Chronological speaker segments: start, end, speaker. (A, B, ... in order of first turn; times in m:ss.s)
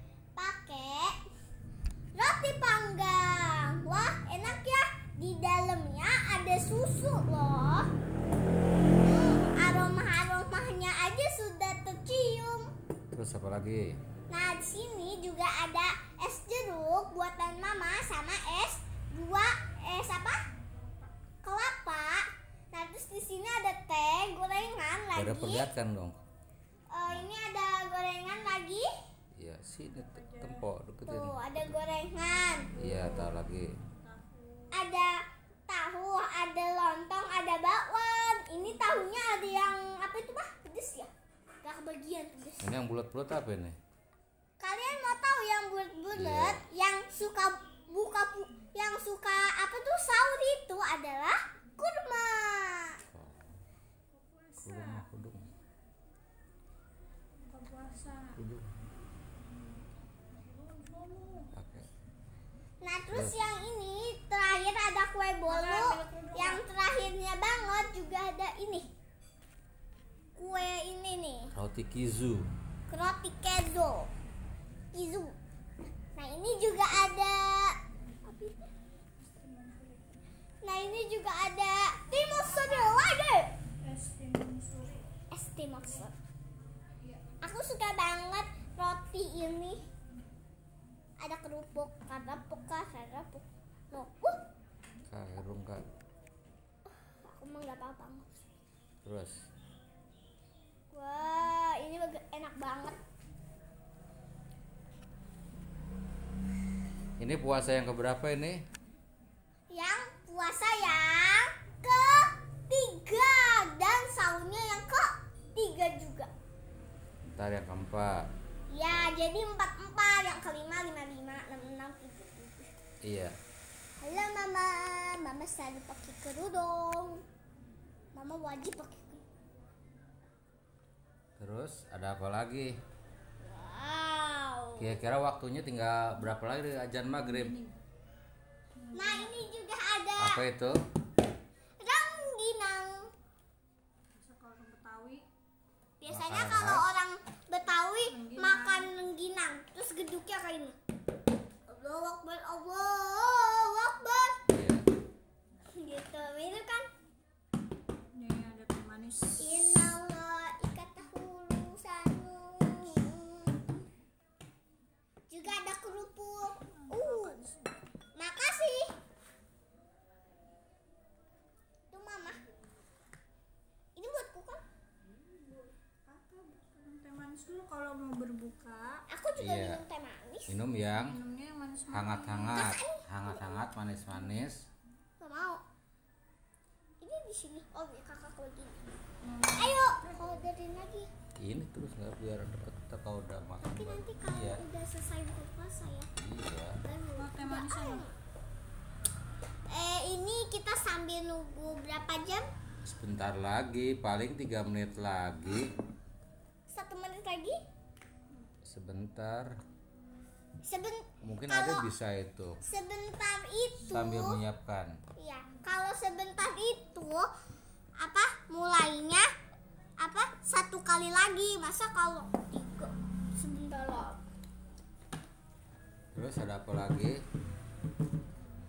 0:00.4-0:01.2 A
0:02.2-0:07.9 A
0:09.0-0:12.7 A
0:13.1-0:14.0 B
0:14.3-0:20.4 A
0:21.4-0:25.7 A
0:25.2-0:26.2 B
0:26.9-0:28.9 A
0:29.4-0:31.4 B
0:30.1-0:30.6 C
0:31.1-0:32.8 A
0:32.8-0:33.7 B
0:32.8-0:34.8 C
0:34.7-0:41.1 A
0:41.6-0:42.8 A
0:42.6-0:43.8 B
0:44.6-0:53.0 A
0:46.1-0:46.6 B
0:53.1-0:53.6 B
0:54.1-0:55.0 C
0:54.6-0:55.5 B
0:57.4-0:58.4 C
0:58.4-0:58.7 B
1:00.4-1:01.5 C
1:01.5-1:01.9 B
1:02.8-1:08.9 A
1:03.1-1:03.4 B
1:05.5-1:06.6 C
1:10.4-1:11.5 A
1:11.6-1:12.5 B
1:12.9-1:14.1 A
1:14.9-1:15.3 A
1:16.2-1:18.7 A
1:19.2-1:20.2 C
1:20.6-1:23.5 A
1:23.8-1:25.1 C
1:25.3-1:26.1 A
1:27.4-1:29.8 A
1:31.2-1:34.4 A
1:35.1-1:35.8 B
1:37.1-1:38.4 A
1:39.0-1:39.4 B
1:40.9-1:43.0 A
1:47.2-1:48.6 B
1:49.7-1:56.3 A
1:57.4-1:58.3 B
1:58.7-2:02.7 A
2:03.0-2:03.4 B
2:04.0-2:07.2 A
2:08.2-2:09.2 A
2:11.4-2:12.8 B
2:13.4-2:15.0 A
2:14.8-2:17.6 B
2:17.2-2:17.8 C
2:18.8-2:19.3 C
2:18.9-2:20.4 A
2:20.2-2:20.8 B
2:21.8-2:23.1 A
2:24.2-2:25.3 C
2:26.0-2:30.8 A
2:26.1-2:26.9 B
2:28.1-2:28.9 C
2:31.7-2:34.4 A
2:34.5-2:34.9 B
2:35.7-2:36.9 A
2:38.1-2:39.9 C
2:39.4-2:43.8 A
2:45.3-2:47.4 A
2:46.8-2:47.7 C
2:48.2-2:48.9 A
2:51.9-2:52.4 A
2:54.0-2:54.6 A
2:55.3-2:59.0 C
2:59.1-3:00.6 A
2:59.4-2:59.8 B
3:00.5-3:01.2 B
3:01.0-3:02.6 C
3:01.9-3:04.6 B
3:02.5-3:03.6 A
3:05.2-3:05.6 A
3:07.0-3:08.8 A
3:09.2-3:10.3 C
3:09.5-3:11.1 A
3:11.4-3:14.6 B
3:13.6-3:16.1 A
3:16.2-3:16.8 B
3:16.8-3:18.1 A
3:17.2-3:18.0 C
3:19.7-3:22.5 A
3:22.8-3:25.7 B
3:26.7-3:27.6 A
3:28.7-3:29.5 B
3:30.6-3:31.9 A
3:31.2-3:32.6 B
3:32.6-3:34.4 A
3:33.9-3:35.0 B
3:35.2-3:37.3 A
3:38.0-3:39.3 A
3:40.0-3:44.2 A
3:46.1-3:47.2 B